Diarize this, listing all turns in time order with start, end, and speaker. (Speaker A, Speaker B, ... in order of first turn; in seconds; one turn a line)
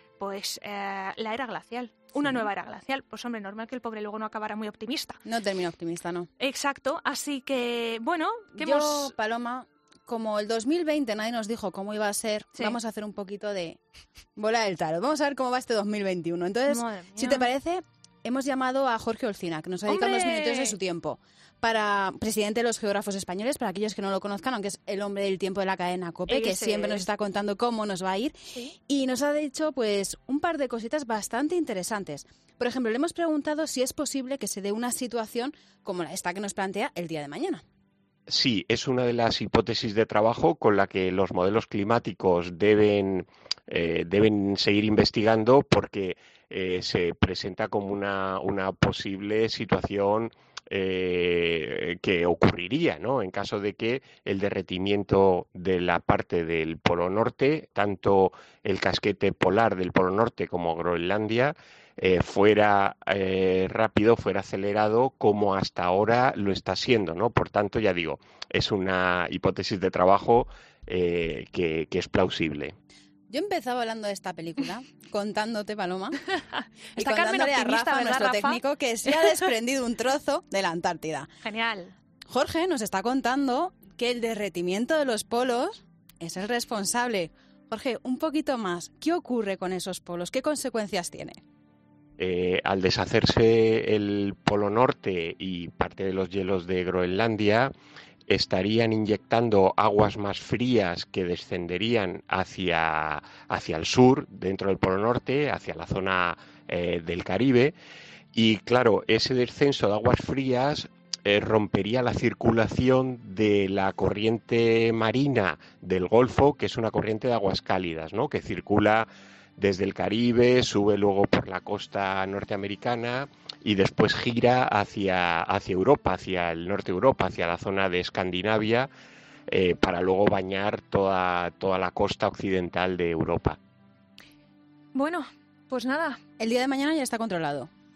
Speaker A: 0.2-5.2
Speaker B: 5.2-6.3
Speaker A: 6.4-9.1
Speaker B: 8.5-13.8
Speaker B: 14.3-37.6
Speaker A: 16.7-17.5
Speaker A: 19.9-20.8
Speaker A: 26.3-27.0
Speaker C: 38.3-72.7
Speaker B: 73.3-76.2
Speaker A: 76.3-79.3
Speaker B: 77.0-81.3
Speaker A: 81.4-81.9
Speaker B: 82.3-91.4
Speaker C: 92.2-97.7
Speaker C: 98.3-107.7
Speaker C: 108.3-128.9
Speaker C: 129.5-133.6
Speaker A: 134.9-136.2
Speaker B: 136.4-137.7